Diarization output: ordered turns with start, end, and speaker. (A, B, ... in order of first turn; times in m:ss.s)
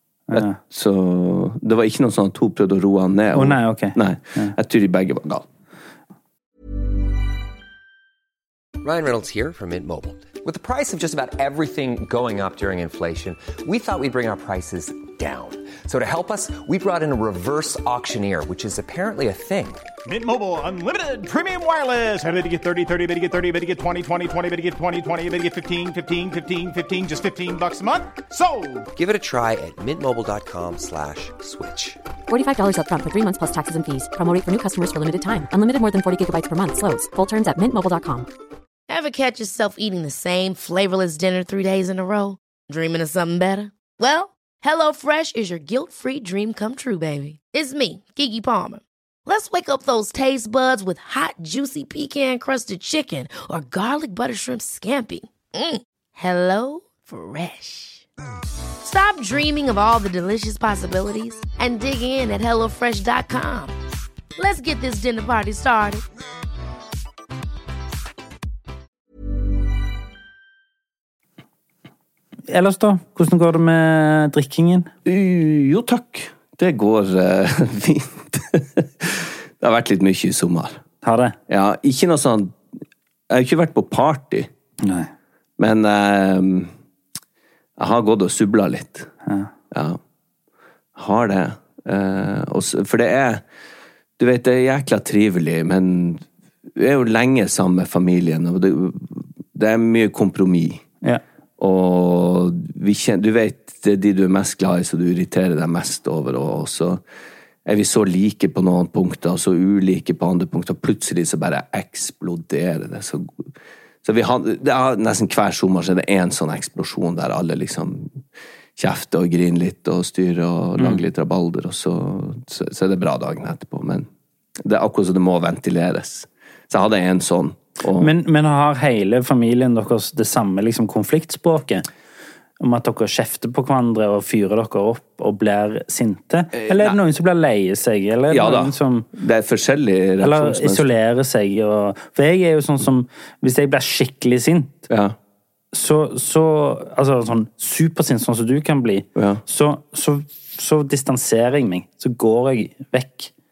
0:00.3-0:00.6 A
0:00.3-0:05.5 B
0:03.3-0:04.6 A
0:08.8-0:19.9 C
0:20.1-0:28.9 D
0:29.0-0:32.0 C
0:32.3-0:38.3 E
0:38.9-0:58.0 F
0:58.8-1:03.8 F
1:04.4-1:06.0 F
1:12.5-1:14.9 A
1:15.0-1:20.8 B
1:21.0-1:21.4 A
1:21.5-1:22.6 B
1:23.3-1:24.5 B
1:24.8-1:25.1 A
1:25.6-1:26.7 B
1:27.8-1:29.1 B
1:29.3-1:29.5 A
1:29.7-1:30.0 B
1:31.0-1:33.4 B
1:34.2-1:40.8 B
1:41.6-1:47.0 B
1:47.6-1:53.5 B
1:54.0-1:58.2 B
1:58.8-2:04.1 B
2:00.8-2:01.0 A
2:04.6-2:08.1 B
2:08.0-2:11.9 A
2:12.6-2:19.1 A
2:16.5-2:17.0 B
2:18.3-2:20.9 B
2:20.2-2:24.9 A
2:24.9-2:25.2 B
2:25.7-2:33.3 A
2:29.2-2:29.4 B